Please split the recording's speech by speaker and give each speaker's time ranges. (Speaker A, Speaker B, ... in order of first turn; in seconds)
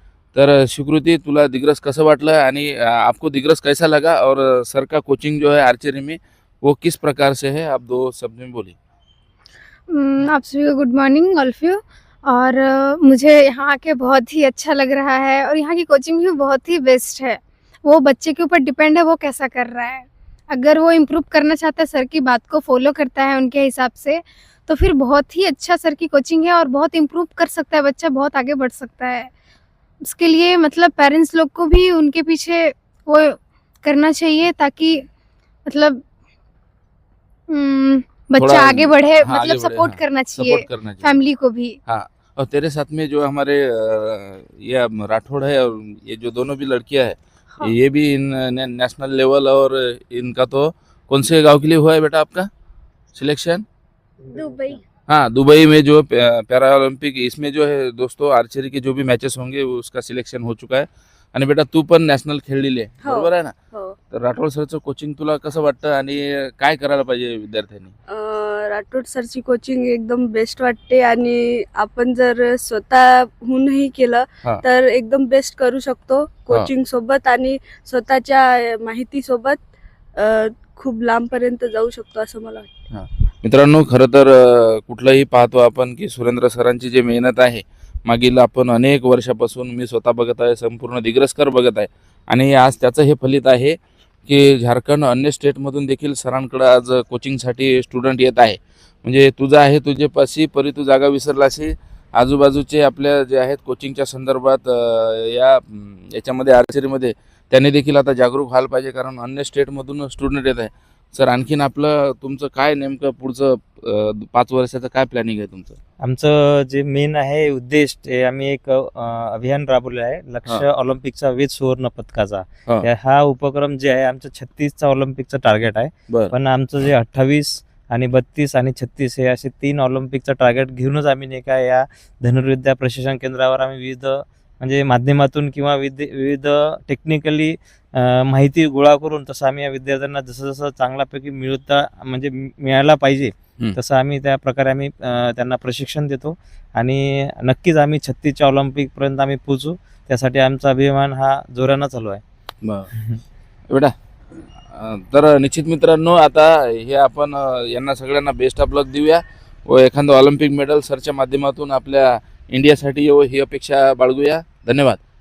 Speaker A: 0.3-8.8, 38.4-41.1, 41.9-52.5, 53.1-53.6, 55.1-63.5, 64.1-67.9, 82.9-115.8, 152.6-152.9, 154.7-165.0
Speaker B: 9.9-29.3, 30.0-35.0, 35.6-36.0, 37.5-41.8
Speaker C: 54.3-54.8, 63.0-64.0, 68.1-79.6, 80.2-82.8
Speaker D: 116.0-152.2